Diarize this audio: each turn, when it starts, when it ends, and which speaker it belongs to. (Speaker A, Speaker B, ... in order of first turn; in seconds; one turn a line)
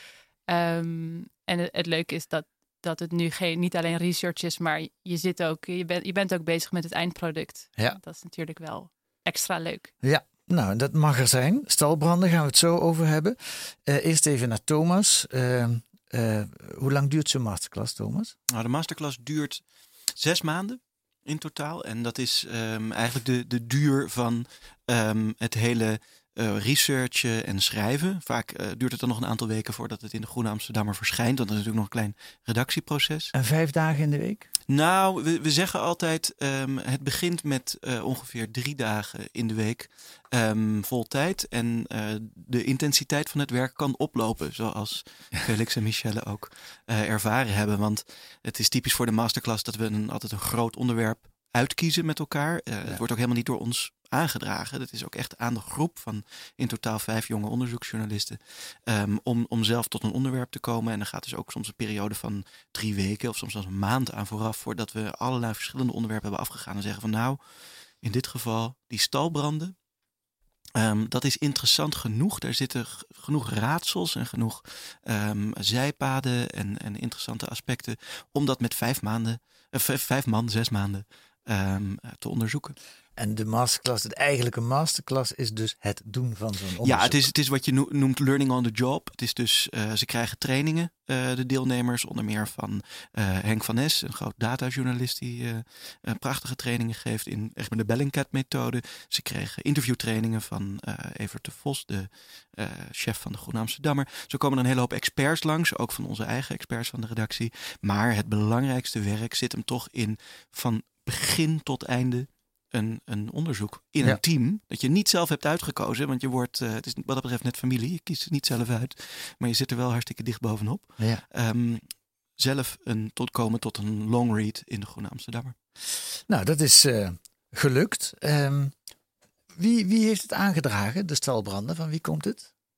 Speaker A: 0.5-9.9
Speaker B: 10.0-18.4
Speaker C: 18.5-33.3
Speaker B: 33.3-34.5
Speaker C: 34.7-69.8
Speaker C: 70.8-82.8
Speaker B: 83.2-87.3
Speaker C: 86.8-121.8
Speaker B: 121.0-121.2
Speaker C: 122.4-125.5
Speaker B: 125.9-128.8
Speaker B: 129.5-132.5